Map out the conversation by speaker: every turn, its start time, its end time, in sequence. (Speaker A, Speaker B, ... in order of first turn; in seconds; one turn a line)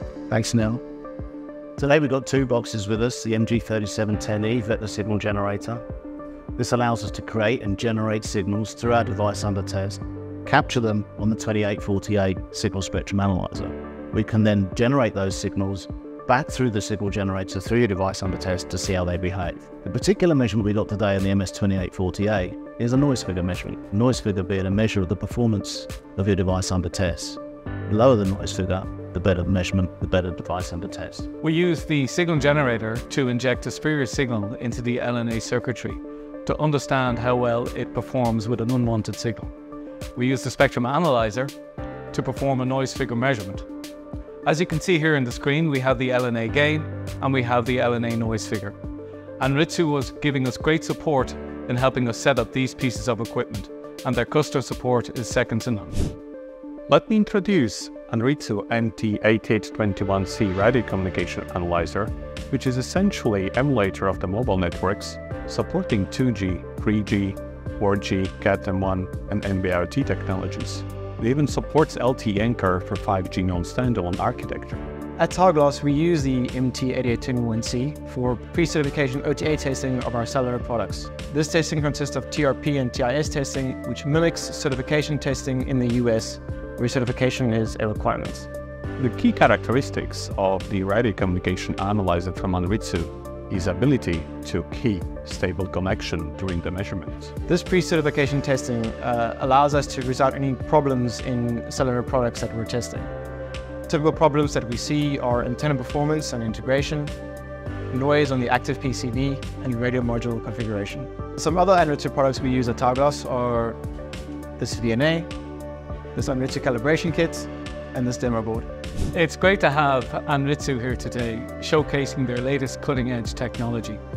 Speaker A: 0.3-0.8
Speaker A: 1.8-5.8
Speaker A: 6.6-31.3
Speaker B: 31.4-39.5
Speaker B: 40.2-41.5
Speaker B: 42.1-43.7
Speaker B: 44.5-48.8
Speaker B: 49.4-56.0
Speaker C: 56.9-74.8
Speaker D: 75.2-88.5
Speaker C: 89.0-97.3
Speaker D: 97.5-103.1
Speaker D: 103.9-107.1
Speaker D: 107.9-113.8
Speaker D: 114.6-115.3
Speaker D: 116.1-118.7
Speaker B: 119.1-124.0